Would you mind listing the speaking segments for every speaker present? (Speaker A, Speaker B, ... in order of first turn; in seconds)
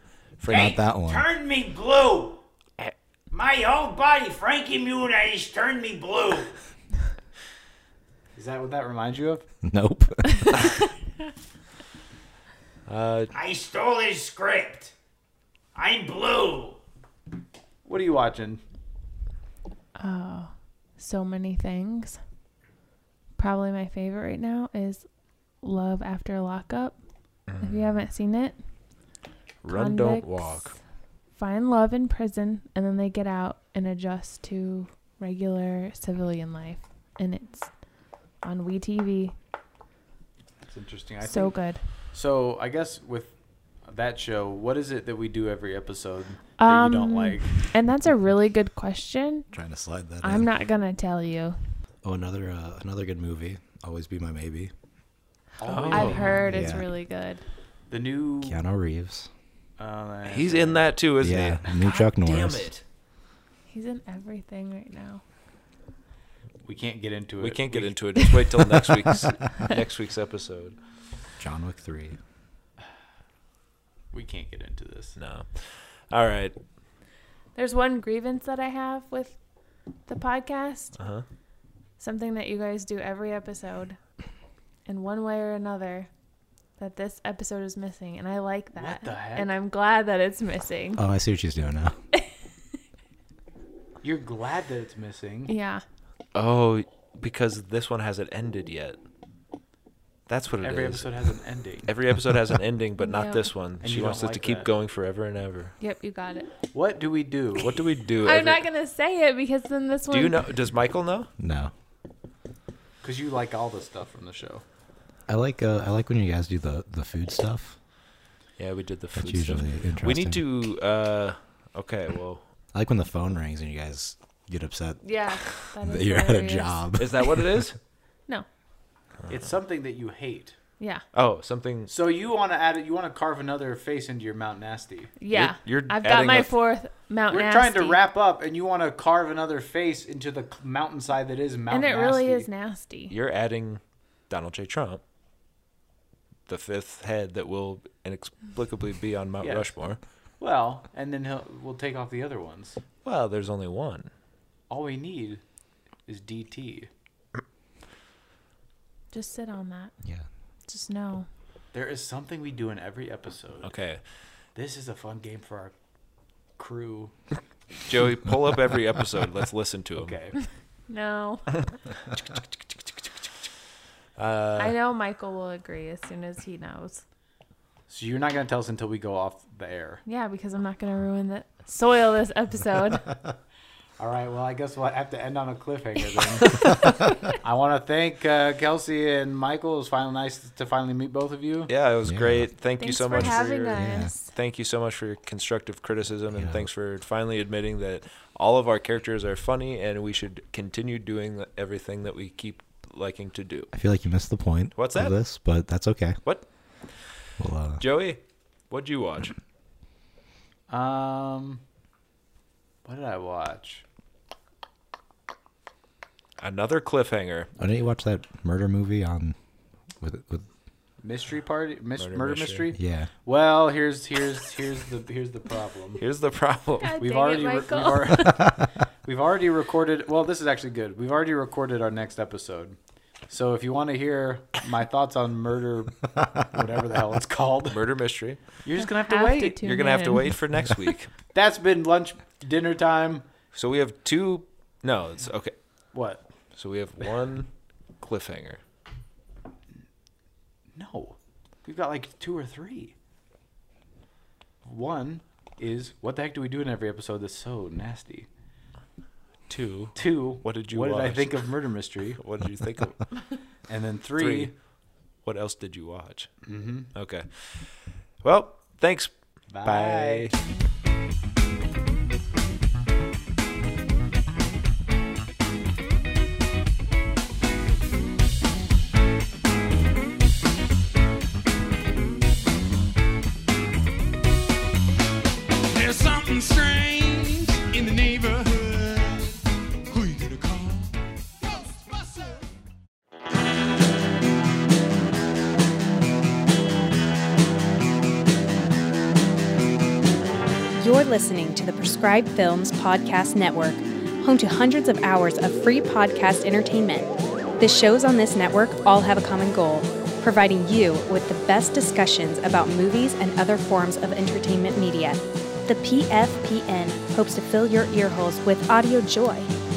Speaker A: 0.4-0.8, 12.8-13.3, 27.5-28.0, 29.6-30.8, 55.6-56.4, 60.2-62.8, 67.4-70.8, 75.2-76.6, 81.0-81.2, 96.3-99.0, 100.3-101.3, 101.8-105.7, 107.6-108.6, 110.1-111.3, 118.6-122.4, 127.0-127.8, 131.1-131.9, 135.3-136.5, 143.1-145.0, 146.5-150.0, 153.0-154.1, 163.6-164.0, 167.9-170.2, 174.2-174.8, 191.7-203.7, 204.7-205.1, 207.8-209.3, 216.4-217.5, 221.9-222.7, 226.0-227.0, 237.7-238.4, 239.6-241.1, 243.5-245.5, 246.5-247.5, 248.0-248.6, 259.5-261.5, 262.2-263.0, 264.2-264.5, 265.2-266.3, 266.9-270.4
Speaker B: 0.5-2.4, 3.3-6.5, 13.3-14.9, 15.7-16.8
Speaker C: 0.6-1.3, 9.6-10.6, 49.5-50.5, 52.0-54.7, 56.5-56.8, 58.4-59.3, 61.2-62.7, 71.4-72.2, 91.0-91.9, 111.4-111.7, 115.3-117.8, 119.2-120.4, 122.7-125.0, 125.8-127.7, 192.0-192.6, 193.1-194.1, 196.3-196.7, 203.7-206.2, 207.4-207.8, 217.6-219.3, 220.0-220.5, 222.7-223.1, 228.2-228.7
Speaker D: 8.3-9.4, 17.8-18.6, 40.7-41.6, 42.1-47.5, 55.6-56.8, 57.9-58.6, 59.8-61.0, 66.6-68.0, 74.1-75.2, 88.8-89.5, 94.0-95.5, 100.6-101.9, 103.8-104.7, 106.7-107.8, 113.0-114.6, 129.3-130.6, 131.9-135.1, 137.3-142.5, 149.4-149.7, 150.4-152.8, 154.7-155.4, 156.1-156.9, 161.7-163.8, 164.5-165.7, 166.6-167.1, 170.0-170.3, 177.9-180.0, 184.0-186.6, 187.4-191.7, 210.7-211.6, 212.8-213.8, 221.0-226.0, 227.0-228.5, 229.0-232.8, 233.3-237.8, 238.6-239.6, 241.3-243.3, 245.9-246.2, 250.7-252.9, 254.6-258.3, 259.9-262.2, 263.7-264.5, 266.4-266.9, 269.5-270.3
Speaker E: 10.4-10.7, 20.0-22.2, 23.4-25.1, 25.6-27.0, 27.6-28.6, 29.7-30.6, 31.3-37.7, 38.4-39.3, 41.2-41.8, 46.6-49.5, 50.2-51.6, 55.8-57.4, 63.7-65.2, 77.5-79.3, 80.1-81.0, 82.0-84.0, 84.9-86.1, 86.8-91.0, 95.5-95.8, 103.0-103.4, 105.8-106.5, 108.2-110.5, 125.0-127.3, 135.2-138.0, 141.7-143.1, 159.1-159.9, 160.7-161.3, 170.9-171.5, 174.6-177.0, 180.1-183.1, 192.8-194.3, 226.8-228.5, 238.8-240.4
Speaker F: 285.7-289.3, 289.9-290.9
Speaker G: 300.8-319.5